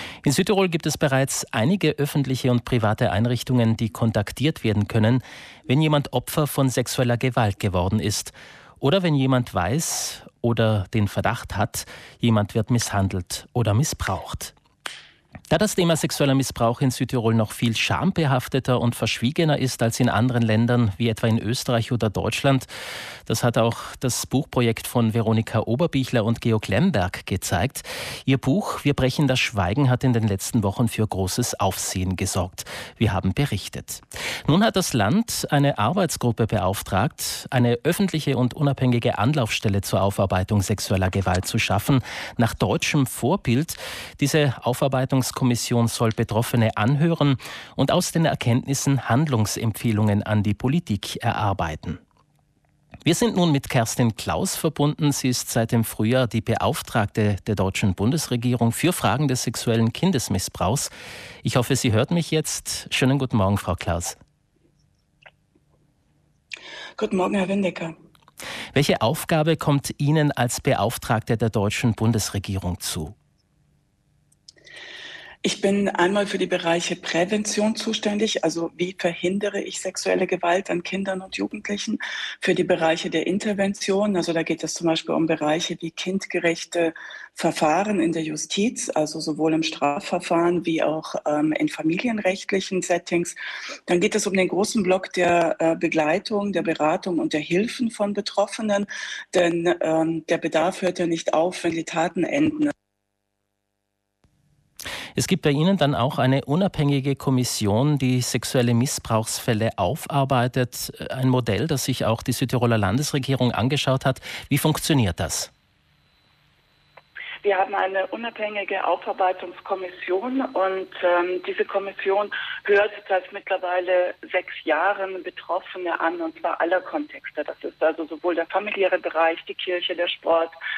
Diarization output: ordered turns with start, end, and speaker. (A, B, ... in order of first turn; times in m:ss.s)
0:00.2-0:14.5 A
0:15.5-0:22.7 A
0:23.3-0:52.0 A
0:53.0-1:00.9 A
1:01.4-1:04.2 A
1:07.0-1:07.9 B
1:08.7-1:13.1 A
1:15.4-1:42.7 B
1:45.2-1:55.5 A
1:57.4-2:10.5 B